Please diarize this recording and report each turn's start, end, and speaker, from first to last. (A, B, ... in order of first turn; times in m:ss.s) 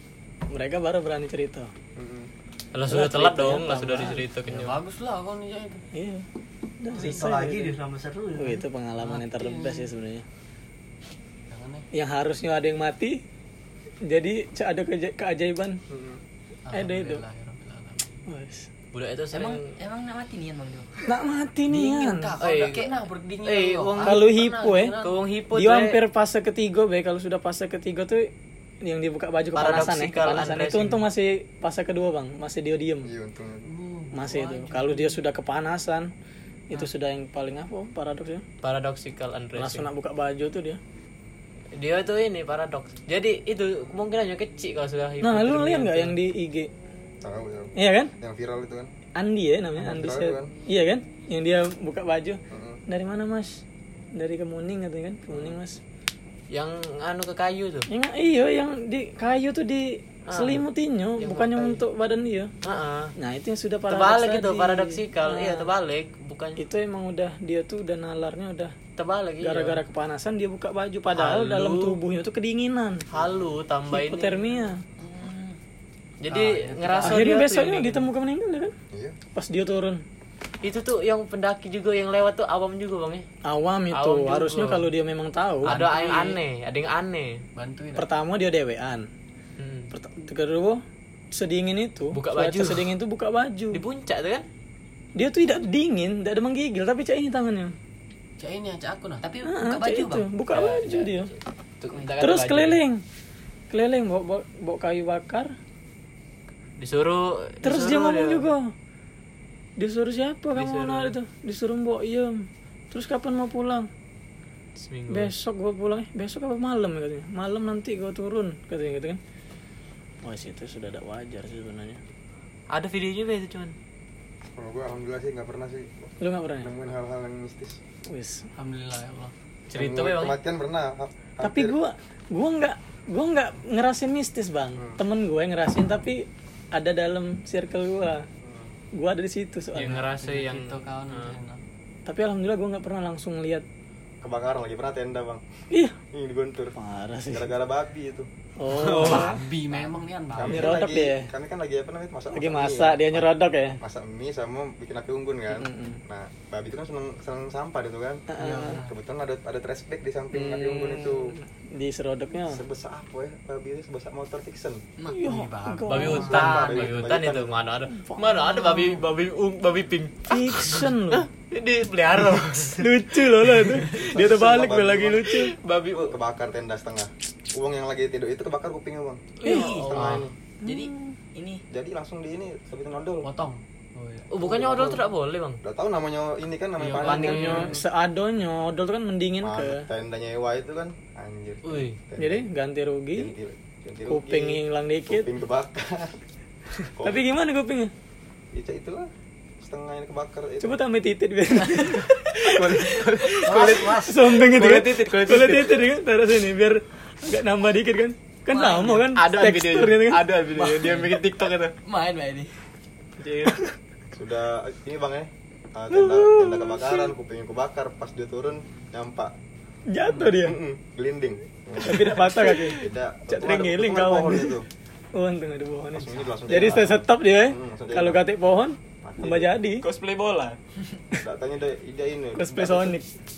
0:00.5-0:01.7 A
0:02.0-0:02.3 B
0:02.7-0:04.8 C
0:02.8-0:04.1 A
0:03.7-0:05.8 D
0:05.9-0:06.2 A
0:06.8-0:07.5 A
0:06.9-0:08.0 D
0:07.0-0:07.7 B
0:07.1-0:08.6 E
0:08.3-0:10.2 A
0:09.0-0:09.9 D
0:11.5-0:11.8 D
0:11.9-0:13.2 A
0:14.0-0:15.8 A
0:15.9-0:16.2 B
0:16.6-0:18.2 D
0:16.7-0:17.2 A
0:18.3-0:18.7 A
0:18.9-0:19.7 C
0:19.3-0:21.1 E
0:21.0-0:22.4 A
0:21.7-0:25.1 D
0:22.4-0:22.9 C
0:22.5-0:23.0 E
0:23.4-0:24.2 C
0:24.0-0:24.9 A
0:25.0-0:26.0 C
0:25.5-0:28.3 A
0:28.8-0:33.1 A
0:29.5-0:31.0 C
0:33.0-0:33.7 B
0:33.6-0:35.2 D
0:34.1-0:36.1 A
0:36.7-0:38.4 A
0:38.6-0:39.9 C
0:39.6-0:40.8 A
0:41.7-0:46.1 C
0:45.2-0:46.7 A
0:47.2-0:48.9 B
0:47.8-0:48.1 A
0:49.2-0:53.6 A
0:49.8-0:50.5 B
0:52.5-0:52.8 B
0:54.1-0:55.8 A
0:55.3-0:55.6 B
0:56.5-0:57.9 C
0:57.9-1:02.5 A
1:00.3-1:00.6 C
1:01.2-1:01.8 C
1:02.6-1:03.1 C
1:03.2-1:05.7 A
1:03.9-1:06.6 C
1:06.6-1:08.8 A
1:09.0-1:09.8 C
1:09.4-1:13.0 A
1:11.1-1:12.0 C
1:13.1-1:14.4 C
1:13.9-1:14.8 A
1:15.2-1:15.5 E
1:16.2-1:18.1 C
1:16.3-1:17.3 D
1:17.0-1:18.7 A
1:18.9-1:19.2 B
1:19.3-1:20.0 A
1:20.6-1:23.3 C
1:23.4-1:25.7 A
1:23.9-1:24.9 C
1:25.6-1:26.4 D
1:25.6-1:27.4 C
1:27.5-1:28.0 D
1:28.0-1:29.1 A
1:29.6-1:29.9 C
1:29.9-1:30.8 A
1:31.3-1:33.8 A
1:32.1-1:32.9 C
1:33.7-1:34.4 C
1:35.2-1:37.7 A
1:38.4-1:39.4 D
1:39.2-1:40.9 E
1:39.4-1:41.3 A
1:40.5-1:41.1 D
1:41.9-1:42.7 E
1:41.9-1:42.4 D
1:42.2-1:43.0 A
1:43.7-1:45.5 A
1:46.8-1:48.5 C
1:47.6-1:48.7 A
1:49.8-1:53.9 A
1:50.6-1:51.1 C
1:54.8-1:55.3 C
1:55.1-1:59.2 A
2:00.2-2:02.0 A
2:02.7-2:03.7 C
2:04.6-2:06.1 B
2:06.2-2:06.7 A
2:06.6-2:07.8 B
2:08.1-2:08.5 A
2:08.6-2:09.3 D
2:09.7-2:10.4 C
2:09.7-2:11.8 B
2:11.4-2:18.2 A
2:18.4-2:18.7 B
2:19.0-2:20.0 A
2:19.7-2:21.4 C
2:19.7-2:21.6 D
2:22.0-2:23.6 A
2:24.2-2:25.4 B
2:25.7-2:26.0 A
2:26.1-2:26.7 B
2:26.8-2:27.5 A
2:27.3-2:28.3 B
2:28.6-2:29.4 A
2:28.7-2:29.4 C
2:28.7-2:30.8 D
2:30.3-2:33.2 B
2:30.4-2:31.3 A
2:32.3-2:33.8 A
2:33.8-2:38.2 B
2:35.5-2:36.0 A
2:38.3-2:38.8 A
2:38.4-2:38.9 D
2:38.8-2:41.3 B
2:40.3-2:42.6 A
2:42.5-2:44.8 B
2:45.0-2:47.2 D
2:45.1-2:46.4 A
2:45.9-2:52.9 C
2:46.1-2:47.6 B
2:47.9-2:48.3 A
2:50.3-2:51.2 A
2:52.8-2:55.5 A
2:53.9-2:55.4 B
2:55.3-2:56.2 C
2:56.0-3:00.3 B
2:59.4-3:01.2 A
2:59.4-3:00.9 D
3:01.3-3:01.6 E
3:01.7-3:03.3 B
3:03.2-3:04.3 D
3:04.3-3:05.6 C
3:04.4-3:05.0 B
3:05.6-3:07.8 B
3:06.8-3:07.7 D
3:06.9-3:07.7 C
3:07.4-3:09.9 A
3:09.4-3:12.5 B
3:11.6-3:12.0 D
3:12.2-3:13.3 A
3:13.1-3:16.2 B
3:14.1-3:15.3 A
3:16.8-3:17.3 B
3:17.0-3:17.9 A
3:18.5-3:19.1 B
3:19.6-3:20.8 B
3:20.6-3:30.3 A
3:22.5-3:25.8 C
3:22.5-3:23.0 B
3:23.4-3:24.2 D
3:28.5-3:31.7 C
3:28.7-3:29.0 E
3:30.6-3:31.3 D
3:31.8-3:32.5 E
3:31.9-3:32.4 D
3:33.2-3:33.6 C
3:34.1-3:39.3 B
3:35.9-3:37.0 A
3:39.9-3:40.6 A
3:40.1-3:44.7 B
3:41.8-3:44.6 A
3:45.1-3:49.8 A
3:45.9-3:48.2 B
3:49.0-3:49.6 B
3:49.8-3:50.6 C
3:51.2-3:53.0 B
3:52.3-3:53.1 A